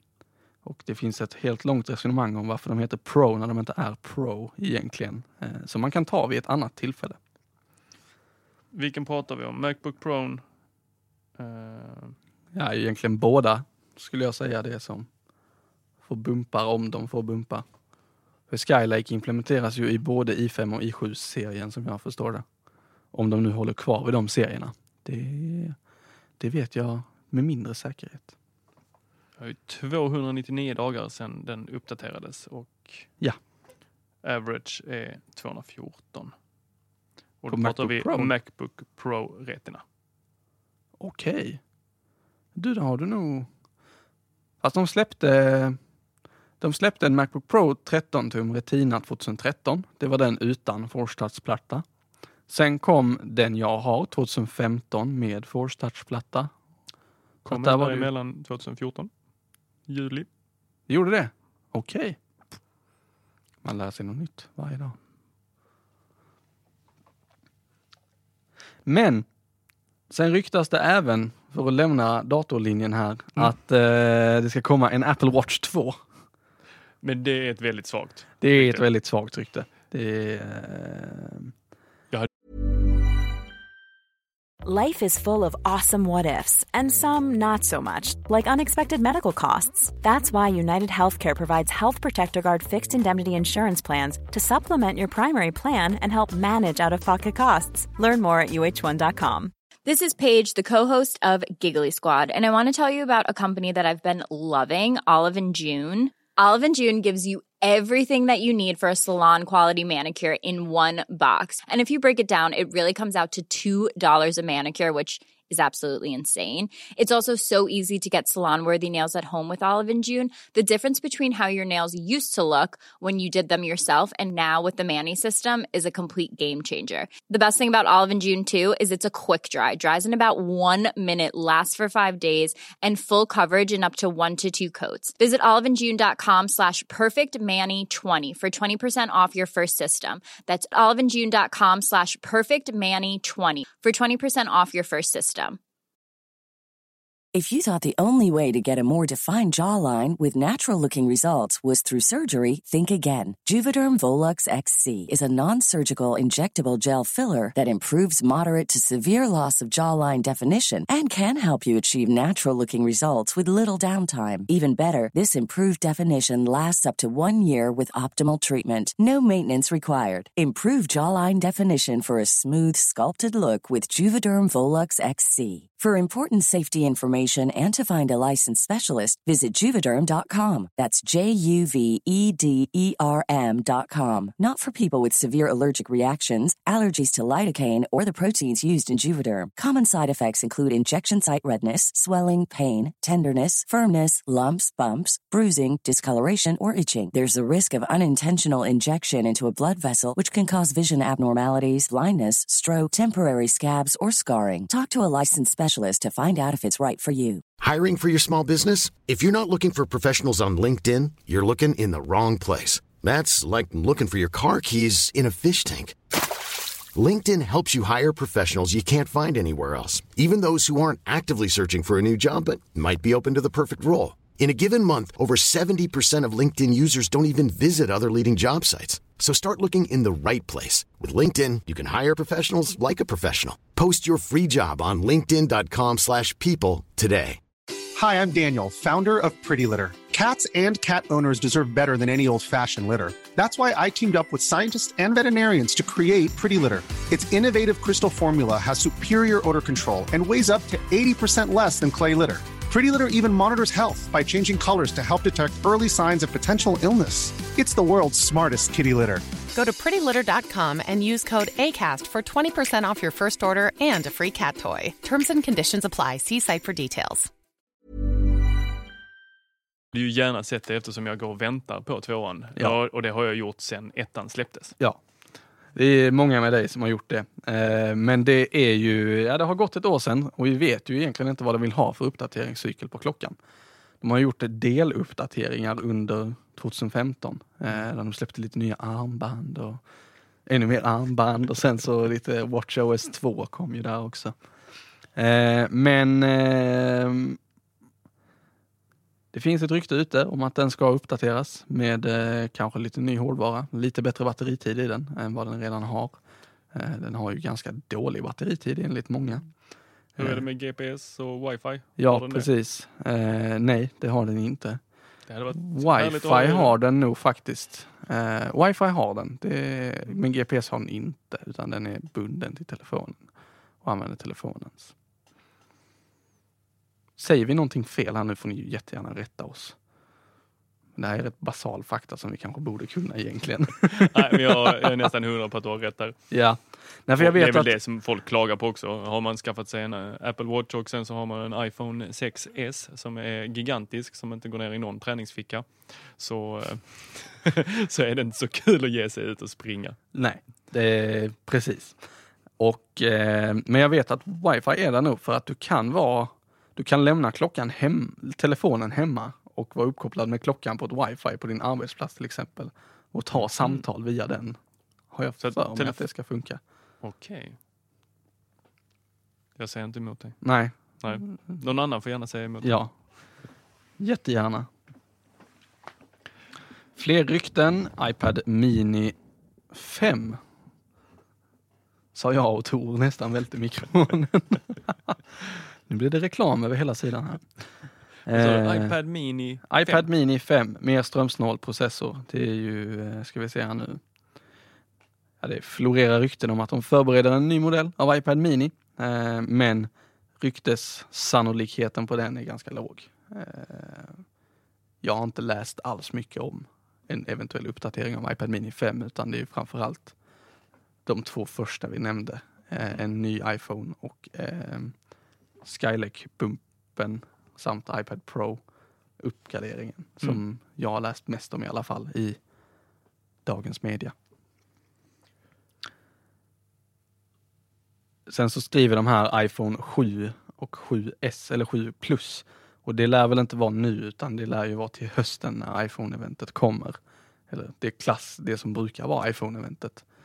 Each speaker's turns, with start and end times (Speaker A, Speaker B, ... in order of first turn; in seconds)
Speaker A: 0.6-7.2, 12.5-15.1, 16.0-17.6, 18.5-22.4, 23.1-25.8, 26.4-28.3, 37.5-38.3, 41.0-41.6, 42.5-43.5, 44.6-45.8, 46.6-51.8, 52.5-56.5, 57.5-58.1, 60.9-62.2, 63.6-65.0, 68.8-69.2, 70.1-76.0, 78.4-81.5, 275.7-283.4, 284.0-289.8, 290.5-294.3, 295.1-297.4, 299.3-306.2, 306.7-309.5, 310.1-310.4, 312.0-314.8, 315.5-323.2, 323.8-324.9, 327.2-329.8, 330.9-334.9, 336.3-337.7, 350.1-351.9, 352.6-364.6, 365.1-366.6, 370.4-371.3, 372.6-372.9, 374.0-374.7, 376.9-379.1, 379.7-380.4, 382.1-385.2, 385.9-387.4, 388.3-388.9, 389.7-394.0, 395.4-404.2, 405.0-410.1, 411.1-414.9, 415.6-418.6, 419.2-422.4, 423.4-424.1, 428.3-437.0, 437.5-440.0
Speaker B: 8.7-10.4, 11.4-12.1, 29.4-33.1, 34.2-36.3, 37.4-39.8, 57.4-59.1, 59.9-60.3, 77.0-78.9, 269.9-274.8, 310.2-312.5, 315.3-316.7, 333.9-336.2, 337.2-350.0, 363.3-363.8, 365.4-366.0, 367.0-367.6, 369.6-370.4, 371.0-372.8, 388.2-390.1
Speaker C: 84.6-99.5
Speaker D: 99.8-145.6
Speaker E: 147.3-207.4
Speaker F: 207.6-215.9, 216.9-237.4
Speaker G: 237.9-259.3
Speaker H: 259.5-267.3